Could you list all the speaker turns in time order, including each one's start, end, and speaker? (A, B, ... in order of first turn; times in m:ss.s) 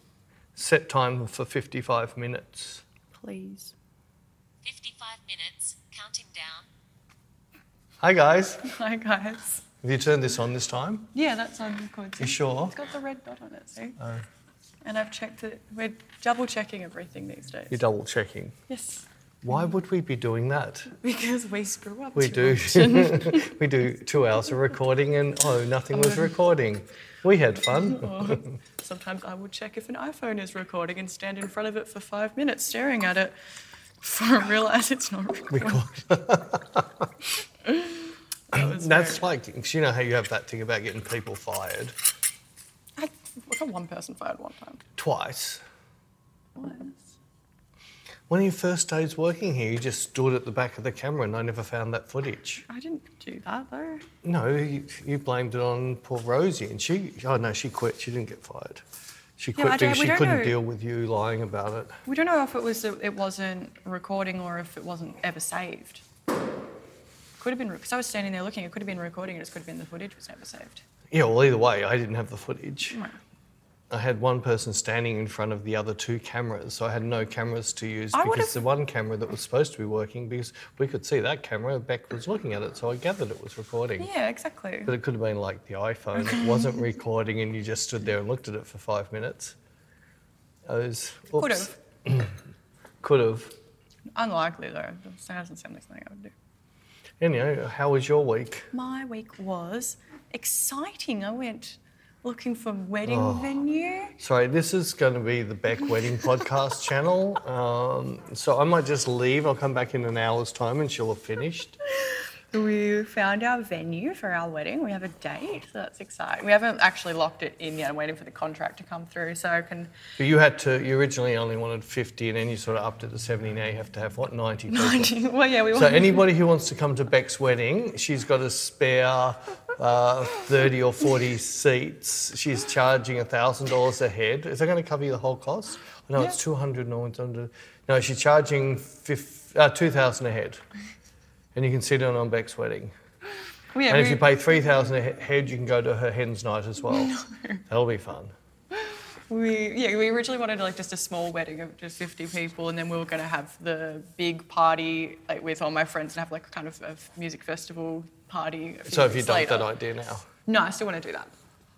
0:00.6-0:02.8 A
0:03.2-0:03.7 B
0:04.6-0:06.7 C
0:08.0-0:08.7 A
0:08.6-0:09.6 B
0:09.8-0:11.1 A
0:11.1-0:14.0 B
0:12.2-0:12.8 A
0:14.0-0:14.2 A
0:14.8-0:17.8 B
0:17.7-0:18.6 A
0:18.7-0:19.1 B
0:19.4-0:20.9 A
0:20.9-0:23.6 B
0:22.2-0:28.6 A
0:25.9-0:26.4 B
0:27.6-0:33.3 B
0:34.0-0:35.9 B
0:35.5-0:37.1 A
0:37.6-0:39.3 B
0:38.5-0:42.0 A
0:43.0-0:44.8 B
0:45.0-0:45.6 A
0:46.6-0:47.1 B
0:48.3-0:52.6 A
0:52.7-0:54.0 B
0:54.2-0:58.8 A
0:59.4-1:02.0 A
0:59.6-1:00.6 B
1:02.1-1:06.0 B
1:07.4-1:10.8 B
1:11.1-1:13.0 A
1:12.9-1:13.2 B
1:13.9-1:24.1 A
1:18.1-1:18.6 B
1:24.0-1:24.9 B
1:24.9-1:29.6 A
1:26.2-1:26.8 B
1:30.7-1:32.4 A
1:31.4-1:31.7 B
1:33.0-1:33.5 A
1:34.1-1:36.3 B
1:37.2-1:38.7 A
1:38.7-1:44.2 B
1:43.0-1:43.5 A
1:44.2-1:51.8 A
1:52.0-1:59.9 B
2:00.2-2:05.2 A
2:04.7-2:06.3 B
2:05.7-2:20.6 A
2:21.5-2:22.9 A
2:23.7-2:24.3 B
2:23.9-2:27.2 A
2:26.8-2:27.6 B
2:27.7-2:28.3 A
2:28.7-2:39.7 B
2:38.9-2:40.3 A
2:40.5-2:41.3 B